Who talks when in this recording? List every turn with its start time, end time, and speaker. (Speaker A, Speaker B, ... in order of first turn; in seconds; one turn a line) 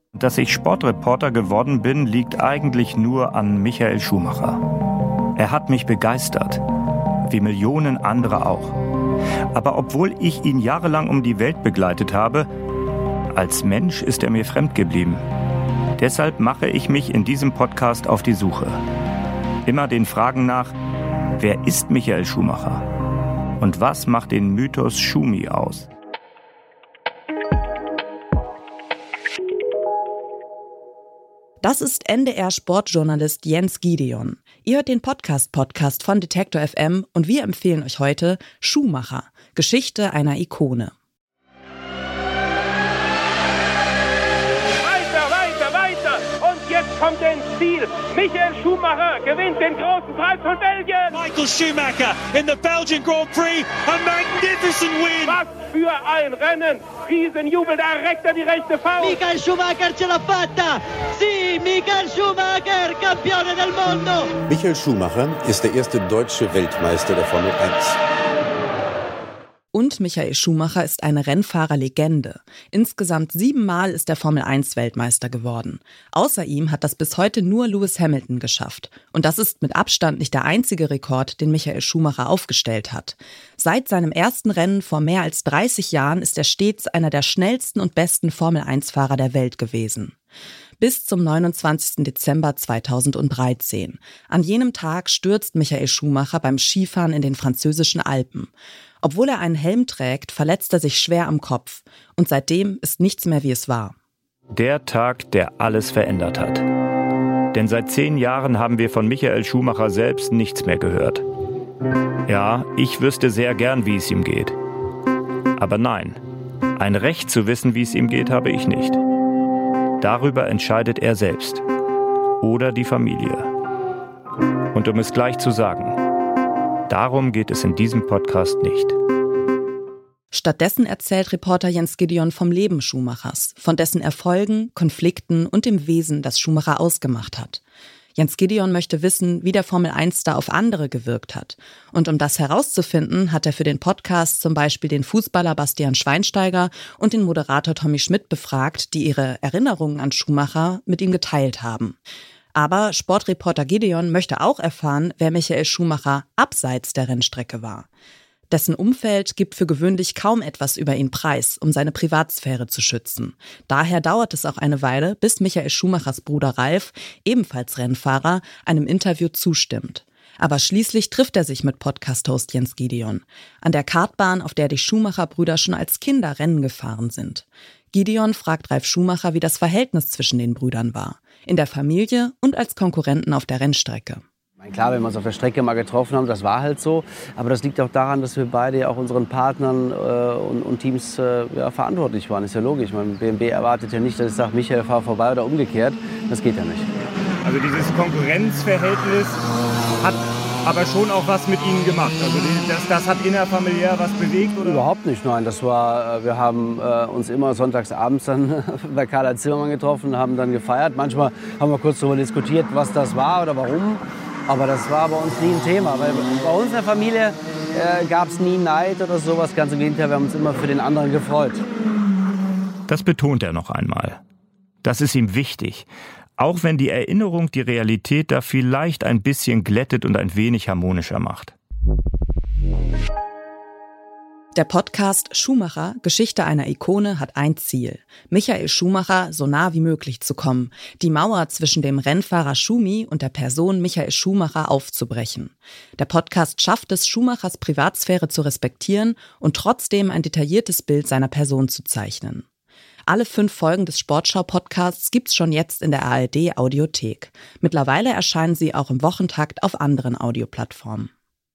Speaker A: 0.1-4.6
Speaker A: 5.3-6.6
Speaker A: 7.2-8.8
Speaker A: 9.5-12.5
Speaker A: 13.3-15.2
Speaker A: 16.0-18.8
Speaker A: 19.6-20.7
Speaker A: 21.4-22.8
Speaker A: 23.6-25.9
Speaker B: 31.6-40.9
Speaker C: 44.8-51.1
Speaker D: 51.1-55.4
Speaker C: 55.3-59.2
Speaker E: 59.0-64.3
Speaker F: 64.5-68.0
Speaker B: 69.7-90.2
Speaker B: 90.8-103.9
Speaker A: 104.5-106.7
Speaker A: 107.5-111.2
Speaker A: 112.3-114.5
Speaker A: 115.6-116.2
Speaker A: 116.8-119.0
Speaker A: 120.0-121.6
Speaker A: 122.4-123.5
Speaker A: 124.7-126.0
Speaker A: 126.9-128.9
Speaker B: 130.3-137.6
Speaker B: 138.2-151.9
Speaker B: 152.5-157.9
Speaker B: 158.5-184.2
Speaker G: 184.6-196.9
Speaker H: 197.4-199.4
Speaker H: 200.0-204.8
Speaker G: 204.5-221.6
Speaker A: 222.9-224.2
Speaker A: 224.8-225.9
Speaker A: 226.4-231.5
Speaker B: 234.5-252.4
Speaker B: 253.1-261.1